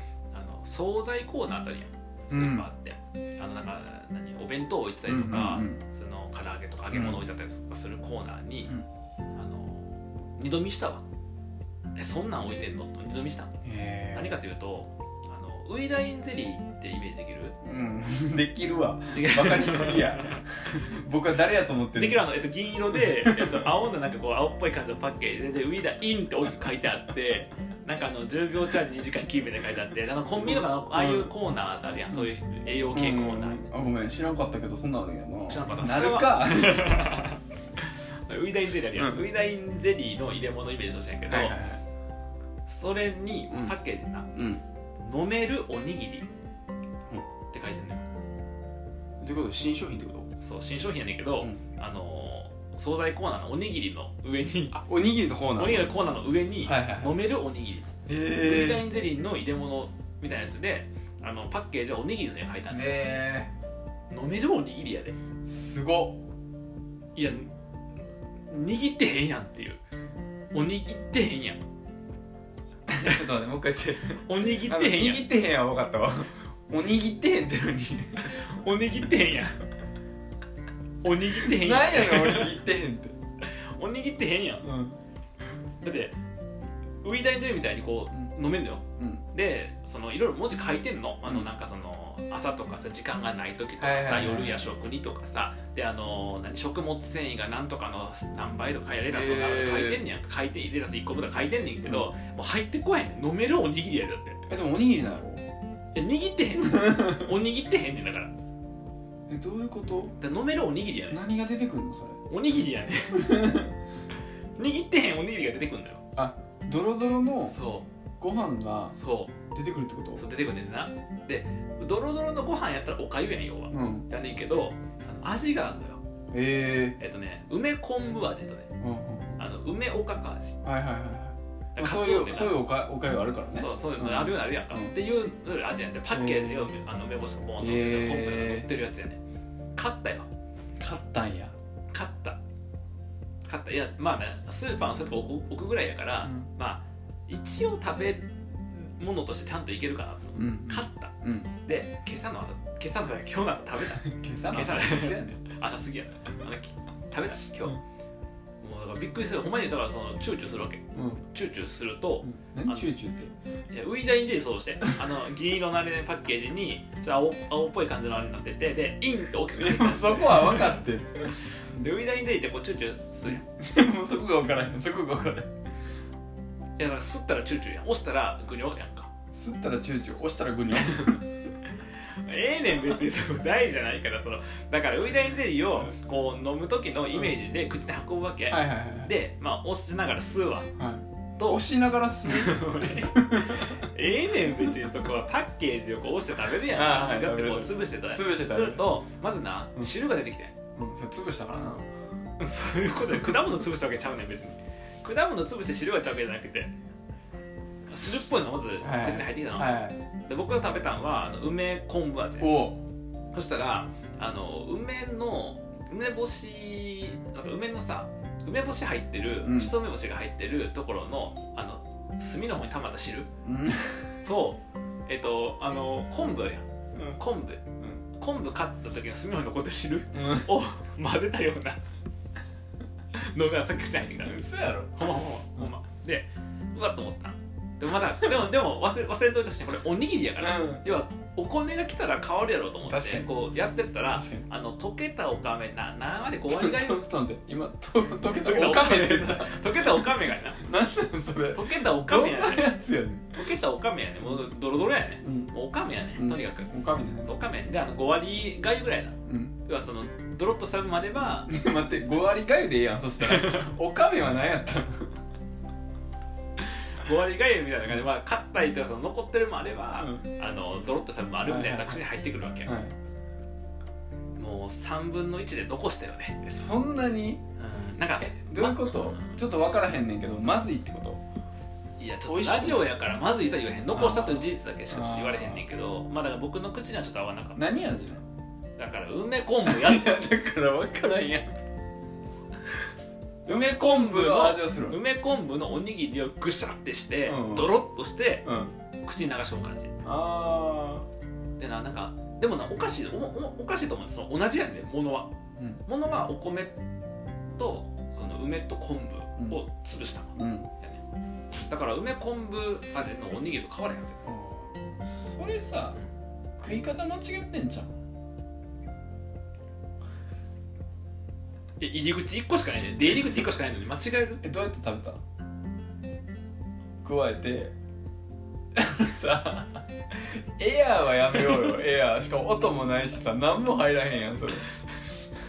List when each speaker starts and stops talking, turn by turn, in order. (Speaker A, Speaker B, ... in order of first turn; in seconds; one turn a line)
Speaker A: 0.3-8.8
Speaker B: 2.3-2.7
Speaker B: 5.0-5.8
Speaker B: 6.9-7.2
Speaker A: 9.3-11.0
Speaker A: 11.9-13.5
Speaker B: 13.6-14.4
Speaker A: 14.1-17.5
Speaker B: 17.6-22.3
Speaker A: 19.1-20.4
Speaker A: 21.9-33.7
Speaker B: 23.0-23.6
Speaker B: 30.4-31.3
Speaker B: 32.9-37.0
Speaker A: 35.5-41.5
Speaker B: 39.0-39.3
Speaker B: 41.3-41.8
Speaker A: 42.7-44.3
Speaker B: 44.3-44.6
Speaker A: 45.0-46.3
Speaker A: 47.5-48.0
Speaker B: 49.2-50.3
Speaker A: 50.4-54.8
Speaker B: 54.7-56.0
Speaker A: 55.6-62.9
Speaker B: 56.6-57.2
Speaker B: 58.1-58.9
Speaker B: 62.7-63.5
Speaker A: 64.1-65.2
Speaker B: 65.5-66.2
Speaker A: 67.1-67.5
Speaker A: 68.5-69.8
Speaker A: 70.5-71.6
Speaker B: 72.9-78.3
Speaker A: 73.0-73.2
Speaker A: 74.2-75.3
Speaker A: 78.3-79.6
Speaker A: 81.0-82.6
Speaker B: 81.4-83.1
Speaker A: 83.5-84.7
Speaker B: 84.6-85.0
Speaker A: 85.8-86.2
Speaker A: 87.0-104.4
Speaker B: 89.0-89.2
Speaker B: 93.8-94.7
Speaker B: 99.0-100.0
Speaker B: 104.5-105.4
Speaker A: 105.9-108.3
Speaker B: 106.6-107.3
Speaker B: 109.3-110.2
Speaker A: 110.2-111.2
Speaker B: 111.1-112.2
Speaker A: 112.3-113.6
Speaker B: 113.1-113.7
Speaker A: 114.6-116.0
Speaker B: 116.2-117.6
Speaker A: 117.5-117.9
Speaker B: 118.2-118.9
Speaker A: 118.9-119.3
Speaker B: 119.5-120.2
Speaker A: 120.2-126.0
Speaker B: 123.7-124.1
Speaker B: 126.3-127.0
Speaker A: 127.0-128.7
Speaker B: 128.8-129.4
Speaker A: 129.4-130.6
Speaker B: 130.6-134.9
Speaker A: 131.8-132.6
Speaker A: 133.5-139.2
Speaker B: 136.1-136.7
Speaker B: 137.6-138.7
Speaker A: 139.8-140.3
Speaker B: 140.8-141.5
Speaker A: 141.9-142.4
Speaker A: 143.4-157.8
Speaker B: 150.3-151.5
Speaker B: 154.0-155.4
Speaker A: 158.6-162.9
Speaker B: 160.9-161.2
Speaker B: 162.2-163.3
Speaker A: 163.7-170.8
Speaker B: 169.5-171.9
Speaker A: 171.5-173.4
Speaker B: 173.2-175.5
Speaker A: 176.8-179.1
Speaker B: 179.3-181.3
Speaker A: 180.8-181.2
Speaker A: 182.2-190.7
Speaker B: 188.5-189.1
Speaker B: 190.8-193.8
Speaker A: 191.4-191.6
Speaker A: 192.2-200.5
Speaker B: 196.7-199.0
Speaker B: 200.8-201.8
Speaker A: 202.4-206.7
Speaker A: 207.9-212.6
Speaker B: 208.8-210.0
Speaker B: 212.4-212.8
Speaker A: 213.3-223.3
Speaker B: 219.4-219.7
Speaker B: 223.4-224.1
Speaker A: 224.2-231.8
Speaker B: 230.1-230.5
Speaker A: 233.1-247.1
Speaker B: 234.2-235.7
Speaker B: 240.4-240.8
Speaker B: 242.8-243.3
Speaker B: 244.1-244.4
Speaker B: 246.4-250.0
Speaker A: 248.2-250.6
Speaker B: 250.6-253.4
Speaker A: 251.5-252.7
Speaker A: 253.3-261.5
Speaker B: 255.2-255.5
Speaker B: 256.1-257.3
Speaker B: 259.3-259.6
Speaker B: 261.5-265.1
Speaker A: 263.2-263.7
Speaker A: 267.0-272.7
Speaker B: 269.9-270.2
Speaker B: 271.4-272.0
Speaker B: 272.6-272.9
Speaker A: 274.4-276.4
Speaker B: 276.4-277.4
Speaker A: 277.6-279.4
Speaker B: 278.2-281.2
Speaker A: 282.0-287.7
Speaker B: 282.2-282.9
Speaker B: 283.9-285.7
Speaker B: 287.5-288.2
Speaker A: 288.8-290.2
Speaker B: 289.6-291.5
Speaker B: 293.4-295.0
Speaker A: 293.5-298.5
Speaker B: 297.2-297.8
Speaker B: 298.4-298.7
Speaker A: 299.0-299.9
Speaker B: 300.0-301.1
Speaker A: 301.6-305.3
Speaker A: 305.9-306.7
Speaker A: 307.6-311.0
Speaker B: 310.4-310.7
Speaker A: 311.6-314.2
Speaker B: 314.2-316.0
Speaker B: 316.6-317.9
Speaker A: 321.8-324.4
Speaker B: 324.4-325.2
Speaker B: 327.0-327.7
Speaker B: 328.7-334.7